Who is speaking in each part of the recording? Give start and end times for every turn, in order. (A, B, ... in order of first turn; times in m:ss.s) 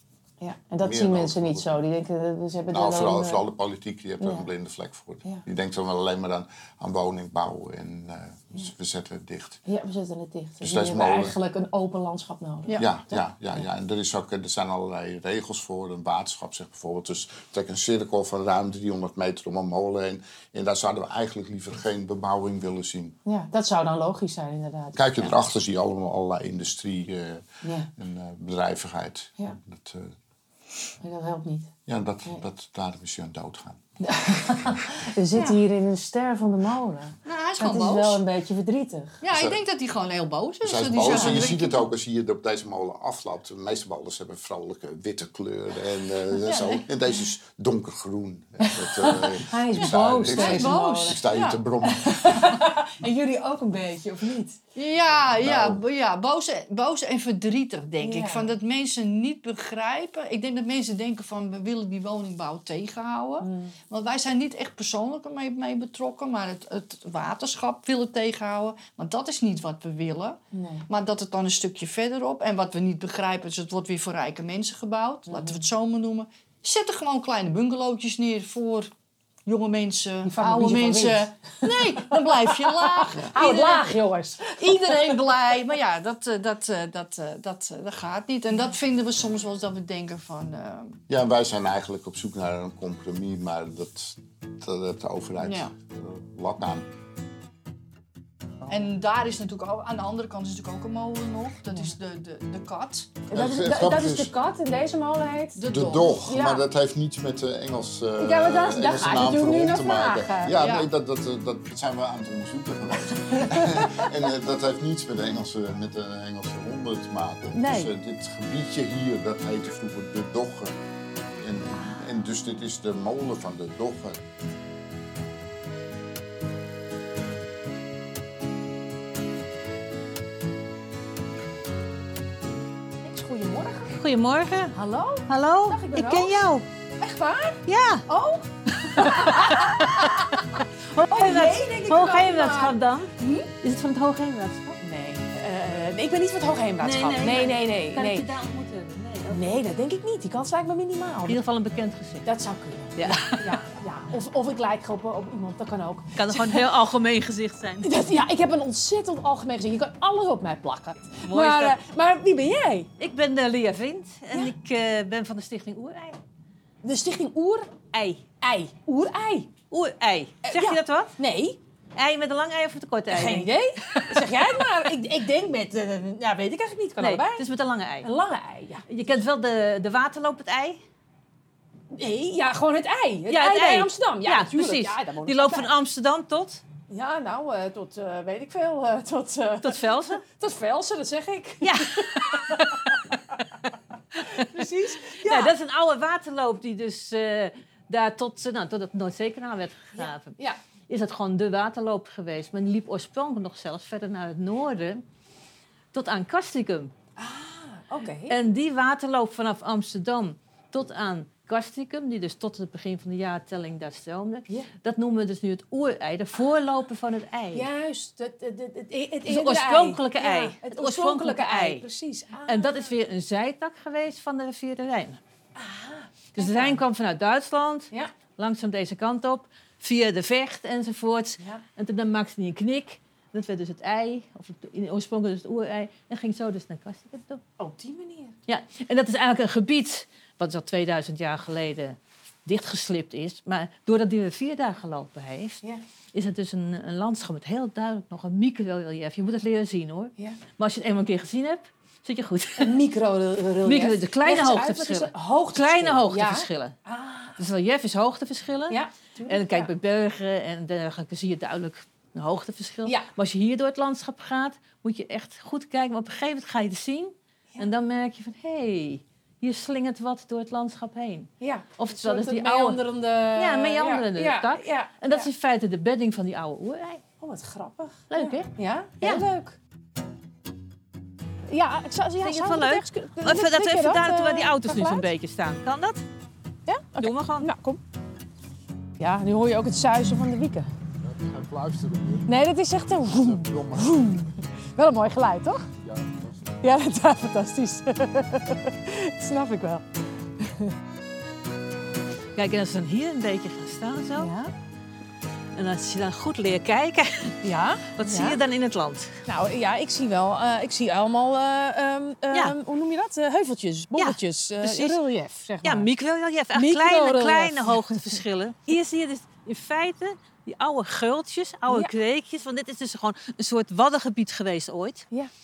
0:00.4-0:03.4 A
0:00.8-0:01.7 B
0:02.7-0:09.6 B
0:04.2-0:04.5 A
0:09.7-0:13.6 A
0:10.6-0:11.4 B
0:12.8-0:23.2 B
0:23.3-0:25.3 A
0:24.9-0:27.4 B
0:27.6-0:27.9 A
0:27.9-0:30.1 B
0:31.0-0:31.7 A
0:31.9-0:33.8 B
0:34.0-0:39.2 A
0:37.2-0:38.2 C
0:39.2-0:41.8 C
0:39.3-0:39.6 B
0:40.6-0:52.5 B
0:41.0-0:41.6 A
0:46.4-0:46.8 A
0:48.6-0:54.6 A
0:49.7-0:51.6 C
0:54.8-1:18.9 C
0:55.3-0:55.8 B
0:58.0-0:58.5 A
1:03.4-1:03.8 A
1:10.5-1:10.9 A
1:15.3-1:15.7 A
1:19.5-1:23.9 C
1:20.2-1:25.7 A
1:24.6-1:31.0 C
1:31.1-1:36.9 B
1:35.4-1:35.7 C
1:38.7-1:43.2 C
1:43.3-1:45.6 A
1:43.3-1:44.4 B
1:45.6-1:46.1 C
1:45.6-2:00.8 B
1:46.2-1:46.6 A
1:48.2-1:50.6 A
1:50.6-1:50.9 C
1:53.1-1:54.0 A
1:57.6-1:57.9 A
2:01.3-2:04.2 B
2:13.0-2:14.0 A
2:13.9-2:14.8 D
2:14.7-2:16.4 A
2:15.3-2:16.7 D
2:17.0-2:23.5 A
2:17.7-2:18.1 D
2:18.8-2:24.8 D
2:24.8-2:28.3 A
2:26.8-2:29.6 D
2:29.3-2:31.4 A
2:31.3-2:32.3 D
2:32.2-2:36.7 A
2:33.0-2:33.6 D
2:36.2-2:37.9 D
2:37.8-2:42.9 A
2:41.2-2:41.8 D
2:43.0-2:46.2 D
2:46.8-2:47.8 A
2:47.9-2:48.2 D
2:48.4-2:49.5 A
2:49.7-2:51.2 D
2:50.4-2:51.6 A
2:52.0-2:53.5 D
2:53.1-2:57.4 A
2:54.2-2:54.4 D
2:57.0-2:58.1 D
2:58.0-2:58.9 A
2:58.9-3:00.8 D
3:01.9-3:05.7 A
3:03.3-3:06.6 D
3:06.9-3:13.4 A
3:09.6-3:10.2 D
3:11.6-3:13.2 D
3:14.2-3:15.5 A
3:14.2-3:25.0 D
3:20.0-3:20.6 A
3:25.9-3:26.9 D
3:27.2-3:28.4 A
3:28.3-3:37.7 D
3:37.5-3:42.9 A
3:39.3-3:41.9 D
3:42.5-3:45.2 D
3:45.6-3:46.8 A
3:46.4-3:57.4 D
3:57.6-3:58.4 A
3:58.5-4:05.6 D
4:06.1-4:12.8 D
4:12.6-4:17.4 A
4:13.6-4:16.8 D
4:17.4-4:37.0 D
4:18.7-4:19.7 A
4:22.8-4:23.1 A
4:31.4-4:35.3 A
4:37.2-4:39.6 A
4:38.1-4:39.3 D
4:41.5-4:45.1 A
4:42.2-4:46.0 D
4:46.7-4:47.8 A
4:47.0-4:47.5 D
4:49.0-4:50.7 A
4:51.0-4:52.4 B
4:52.3-4:55.7 A
4:53.1-4:54.1 B
4:55.8-4:56.5 B
4:56.6-4:59.8 A
5:00.4-5:00.8 A
5:02.4-5:04.3 D
5:04.2-5:04.5 A
5:05.6-5:09.1 D
5:07.4-5:08.4 A
5:09.3-5:15.9 A
5:14.0-5:15.0 D
5:15.6-5:25.1 D
5:16.5-5:18.2 A